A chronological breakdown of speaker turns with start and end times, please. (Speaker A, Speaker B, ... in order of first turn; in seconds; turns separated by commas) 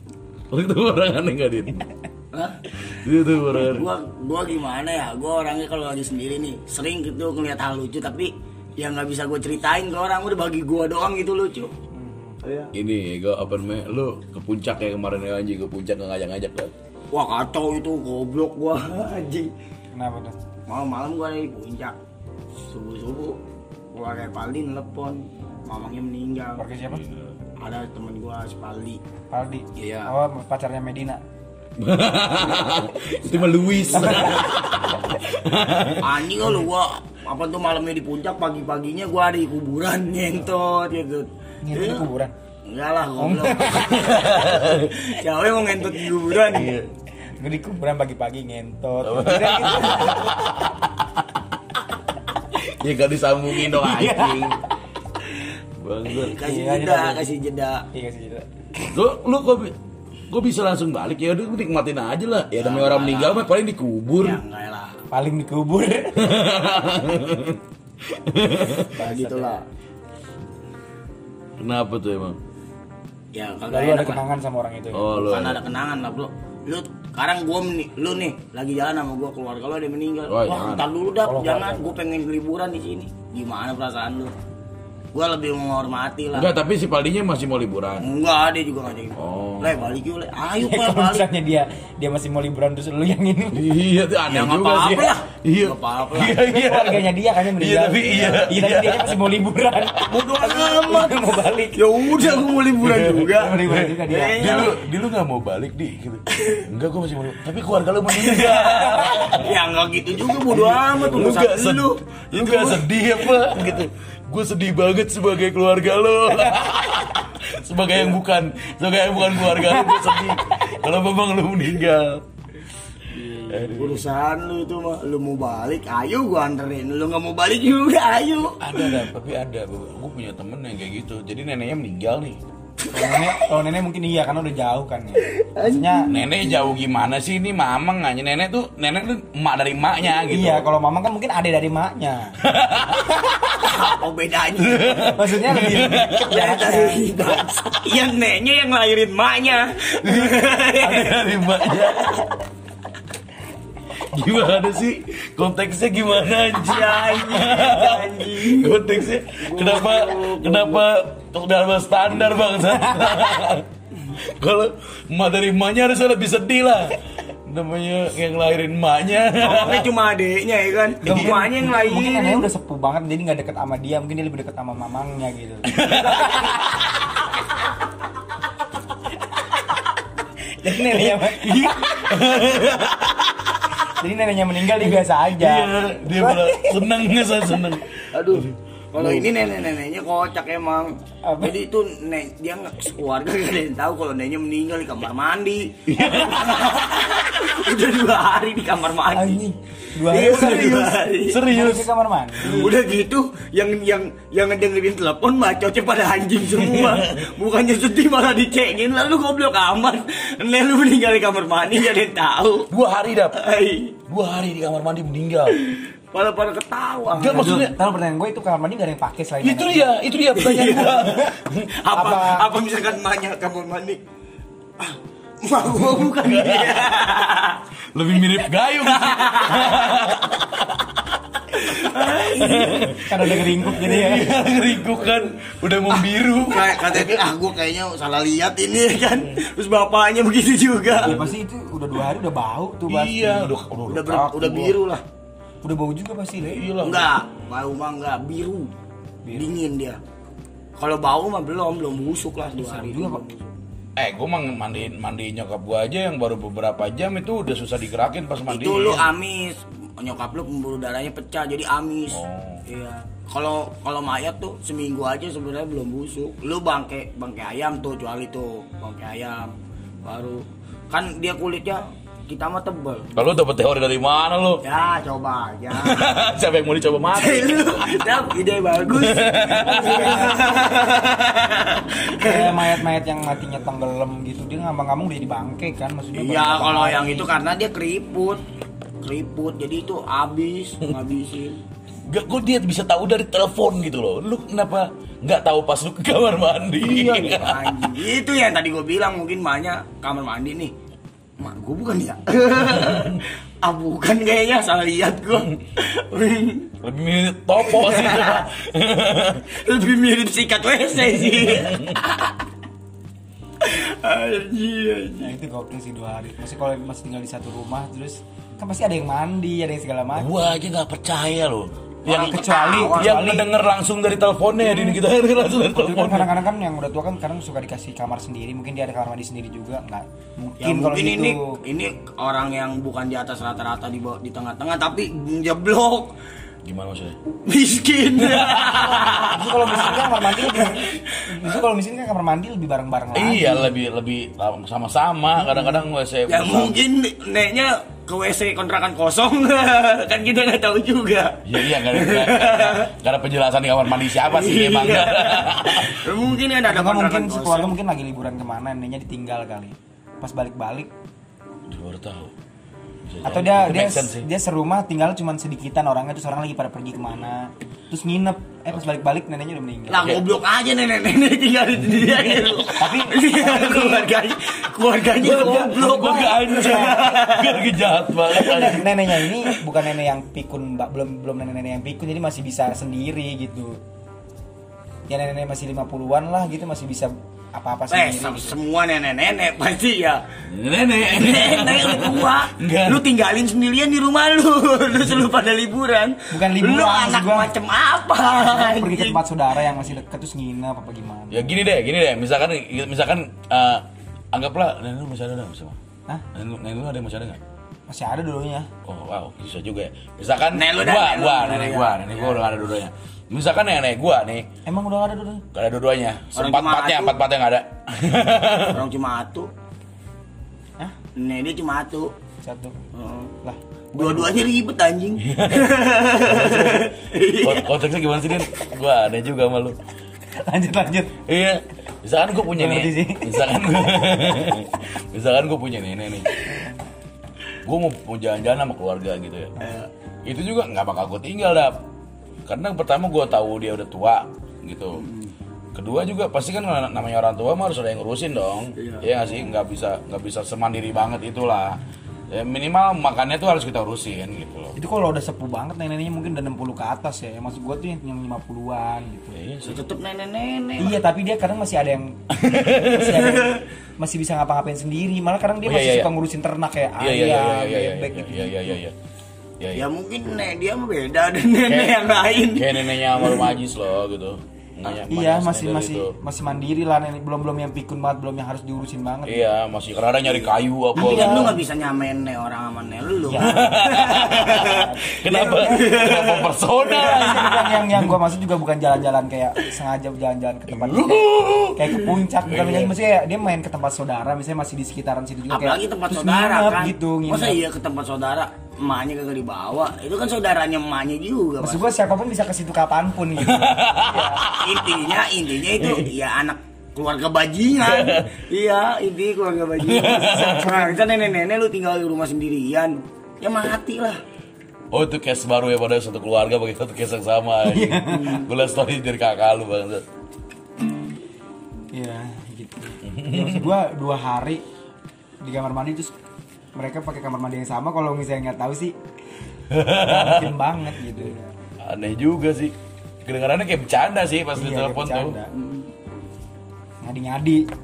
Speaker A: 0.5-1.9, Speaker B: 2.3-2.6, Speaker A: 2.9-3.9, Speaker B: 3.6-11.7, Speaker C: 11.9-12.4, Speaker B: 12.4-12.7, Speaker A: 12.7-16.7, Speaker B: 17.1-19.5, Speaker C: 19.9-20.4, Speaker B: 20.7-21.9, Speaker B: 22.6-23.4, Speaker B: 23.9-26.6, Speaker C: 26.6-27.1, Speaker A: 26.9-27.3, Speaker B: 27.6-29.0, Speaker C: 29.3-31.2, Speaker A: 29.8-30.1, Speaker A: 31.8-36.2, Speaker B: 33.2-34.5, Speaker C: 34.0-34.4, Speaker B: 36.0-42.0, Speaker C: 41.6-42.3, Speaker B: 42.7-46.7, Speaker C: 43.2-44.2, Speaker A: 43.8-45.0, Speaker A: 46.4-46.9, Speaker C: 47.4-50.4, Speaker A: 49.0-51.4, Speaker A: 52.6-54.6, Speaker C: 53.6-54.5, Speaker A: 55.8-56.4, Speaker B: 56.1-57.9, Speaker C: 56.4-57.3, Speaker C: 57.9-58.5, Speaker A: 58.9-59.8, Speaker A: 60.3-64.4, Speaker B: 62.6-63.5, Speaker B: 64.2-65.0, Speaker C: 65.1-66.2, Speaker A: 66.2-68.9, Speaker C: 69.0-69.6, Speaker B: 69.0-69.6, Speaker A: 71.6-72.4, Speaker B: 73.3-74.2, Speaker C: 73.7-75.1, Speaker A: 74.9-75.6, Speaker B: 75.2-84.3, Speaker A: 80.3-80.9, Speaker C: 81.2-82.0, Speaker B: 85.1-86.5, Speaker A: 86.3-88.0, Speaker B: 88.0-91.3, Speaker A: 89.2-90.0, Speaker C: 90.6-93.8, Speaker A: 93.5-100.0, Speaker B: 94.3-96.4, Speaker C: 96.5-101.8, Speaker B: 100.1-101.2, Speaker B: 101.8-104.8, Speaker A: 102.1-109.5, Speaker C: 103.3-104.7, Speaker B: 108.1-113.8, Speaker C: 108.5-109.3, Speaker A: 110.5-122.2, Speaker B: 123.3-129.0, Speaker A: 123.5-124.1, Speaker A: 128.6-132.4, Speaker C: 132.9-136.1, Speaker B: 135.2-136.2, Speaker A: 136.1-140.7, Speaker C: 140.3-142.3, Speaker A: 142.4-143.7, Speaker B: 143.6-145.2, Speaker A: 144.6-146.3, Speaker C: 145.2-147.1, Speaker B: 146.3-152.3, Speaker A: 150.0-152.2, Speaker A: 154.0-169.9, Speaker B: 156.6-160.8, Speaker C: 162.7-163.2, Speaker B: 169.4-172.5, Speaker C: 171.0-176.6, Speaker A: 175.7-176.7, Speaker C: 180.6-182.1, Speaker A: 180.9-181.3, Speaker A: 182.0-183.8, Speaker C: 183.9-186.8, Speaker A: 184.8-189.3, Speaker B: 188.1-199.4, Speaker C: 191.2-191.6, Speaker A: 195.9-196.7, Speaker C: 199.1-202.7, Speaker B: 200.1-201.4, Speaker A: 200.2-201.9, Speaker A: 202.4-202.7, Speaker B: 202.4-212.7, Speaker A: 206.6-207.2, Speaker A: 212.7-213.4, Speaker B: 213.4-214.0, Speaker A: 214.1-215.6, Speaker B: 215.5-217.6, Speaker A: 217.1-217.8, Speaker C: 217.2-219.9, Speaker A: 219.4-221.7, Speaker B: 220.4-221.2, Speaker B: 221.8-224.0, Speaker C: 221.9-222.5, Speaker B: 224.8-227.6, Speaker A: 226.1-227.0, Speaker A: 227.9-237.2, Speaker B: 228.8-230.0, Speaker B: 231.6-233.0, Speaker C: 233.1-234.3, Speaker B: 235.9-241.3, Speaker A: 241.0-241.3, Speaker C: 241.0-243.6, Speaker A: 242.9-244.8, Speaker B: 243.9-245.0, Speaker C: 245.6-246.7, Speaker A: 246.5-247.2, Speaker B: 246.8-248.7, Speaker C: 249.2-249.5, Speaker B: 249.3-250.0, Speaker B: 250.8-253.5, Speaker C: 252.6-253.2, Speaker A: 254.0-259.1, Speaker B: 258.5-269.5, Speaker A: 262.1-262.6, Speaker B: 270.0-273.1, Speaker A: 273.1-274.6, Speaker B: 274.6-276.2, Speaker A: 275.7-277.8, Speaker B: 277.1-282.8, Speaker A: 278.9-280.3, Speaker C: 279.6-280.4, Speaker C: 282.1-287.3, Speaker B: 286.1-288.4, Speaker B: 289.0-291.6, Speaker A: 292.1-297.9, Speaker B: 296.8-300.7, Speaker B: 301.4-306.7, Speaker A: 302.9-303.2, Speaker A: 306.8-309.5, Speaker B: 307.6-308.5, Speaker B: 309.5-312.4, Speaker A: 311.2-311.9, Speaker B: 313.6-315.3, Speaker C: 315.2-320.3, Speaker A: 320.2-326.3, Speaker B: 322.1-323.3, Speaker C: 322.1-323.5, Speaker C: 324.7-325.0, Speaker C: 325.6-331.6, Speaker B: 330.6-336.1, Speaker A: 336.6-337.2, Speaker B: 337.5-341.6, Speaker A: 338.2-338.9, Speaker C: 339.0-343.7, Speaker A: 343.1-346.8, Speaker B: 346.3-352.9, Speaker A: 351.5-356.1, Speaker B: 354.3-357.7, Speaker C: 356.7-360.9, Speaker A: 361.7-362.3, Speaker A: 363.1-364.3, Speaker C: 363.2-370.2, Speaker B: 369.9-377.7, Speaker A: 372.2-372.6, Speaker C: 372.7-374.1, Speaker C: 375.2-377.0, Speaker A: 375.2-379.0, Speaker C: 378.3-383.8, Speaker C: 385.1-388.6, Speaker B: 387.9-390.2, Speaker A: 390.5-393.0, Speaker B: 391.0-399.2, Speaker C: 396.3-397.5, Speaker C: 398.4-401.5, Speaker A: 401.3-405.8, Speaker A: 406.3-407.4, Speaker C: 407.9-408.7, Speaker A: 408.9-414.5, Speaker B: 410.5-412.4, Speaker C: 414.7-415.4, Speaker A: 415.5-418.8, Speaker B: 416.4-417.2, Speaker B: 418.7-419.5, Speaker B: 421.2-422.1, Speaker C: 422.4-422.8, Speaker B: 422.9-423.4, Speaker C: 423.4-424.4, Speaker B: 423.9-427.7, Speaker A: 425.2-426.9, Speaker A: 427.4-429.8, Speaker C: 430.3-431.2, Speaker A: 431.3-436.3, Speaker C: 432.5-433.4, Speaker C: 436.3-436.8, Speaker A: 437.6-439.5, Speaker C: 439.6-439.9, Speaker A: 440.3-441.8, Speaker A: 442.5-445.1, Speaker B: 445.0-445.3, Speaker A: 445.8-454.8, Speaker B: 448.8-449.1, Speaker C: 454.8-459.4, Speaker A: 459.3-459.8, Speaker B: 459.7-461.0, Speaker C: 460.8-462.2, Speaker A: 462.3-463.3, Speaker C: 462.8-468.8, Speaker B: 463.2-463.6, Speaker A: 465.6-466.1, Speaker A: 467.0-468.9, Speaker A: 469.6-469.9, Speaker B: 469.8-473.5, Speaker A: 471.7-472.0, Speaker A: 472.6-476.1, Speaker C: 475.1-479.4, Speaker A: 479.2-481.6, Speaker C: 481.0-481.6, Speaker B: 481.0-487.6, Speaker C: 483.3-483.7, Speaker A: 483.4-488.2, Speaker C: 484.5-485.9, Speaker C: 487.0-497.6, Speaker A: 490.7-492.9, Speaker B: 495.5-502.0, Speaker C: 501.6-504.5, Speaker A: 503.4-505.1, Speaker B: 504.5-514.2, Speaker A: 505.7-506.1, Speaker A: 507.8-508.3, Speaker A: 509.8-510.7, Speaker C: 510.1-511.0, Speaker A: 514.9-520.0, Speaker C: 517.7-518.4, Speaker B: 518.1-518.5, Speaker C: 521.9-524.6, Speaker A: 523.0-523.7, Speaker C: 525.4-526.1, Speaker C: 526.8-528.9, Speaker A: 529.7-530.5, Speaker C: 529.9-531.4, Speaker A: 531.8-535.4, Speaker C: 534.6-535.5, Speaker B: 535.5-535.9, Speaker C: 537.0-537.6